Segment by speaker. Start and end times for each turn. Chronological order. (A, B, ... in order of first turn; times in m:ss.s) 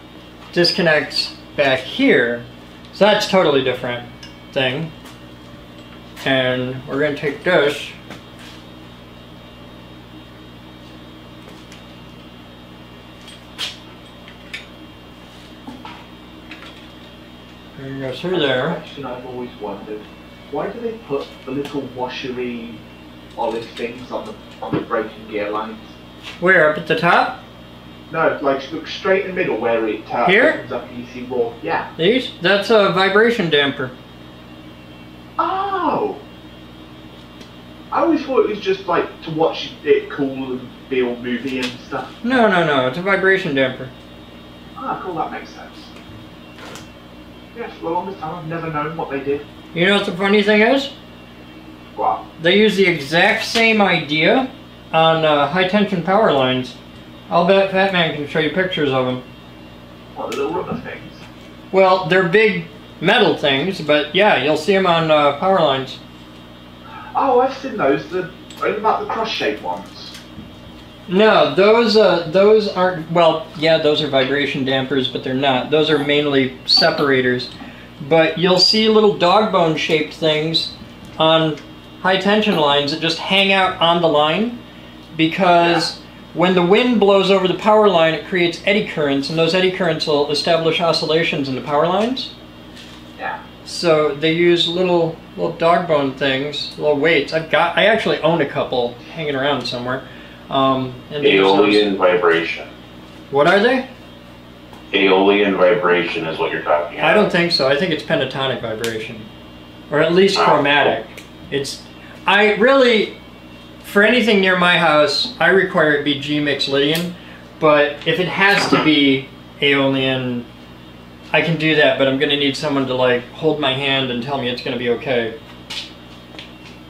0:00.5-0:04.9 A
0:06.2-0:08.0 A
0:17.8-0:18.8 A
0:18.3-0:22.8 B
0:23.3-0:25.9 B
0:26.4-0:27.4 A
0:28.1-0:31.9 B
0:30.2-0:30.6 A
0:32.0-0:33.9 A
0:35.4-0:36.2 B
0:37.9-0:42.1 B
0:42.2-0:43.9 A
0:44.8-0:45.9 B
0:47.5-0:49.4 B
0:49.7-0:50.9 A
0:51.9-0:52.2 B
0:52.4-0:56.8 A
0:57.3-0:59.2 A
1:00.1-1:01.2 B
1:01.7-1:06.0 A
1:07.1-1:10.2 B
1:11.1-1:24.6 A
1:25.1-1:32.3 A
1:25.6-1:25.9 B
1:33.6-1:41.9 A
1:41.2-1:42.7 C
1:43.3-1:43.9 A
1:44.9-1:47.3 C
1:47.0-1:49.3 A
1:49.9-1:53.2 A
1:50.3-1:50.9 C
1:53.8-2:00.5 A
2:01.3-2:05.3 A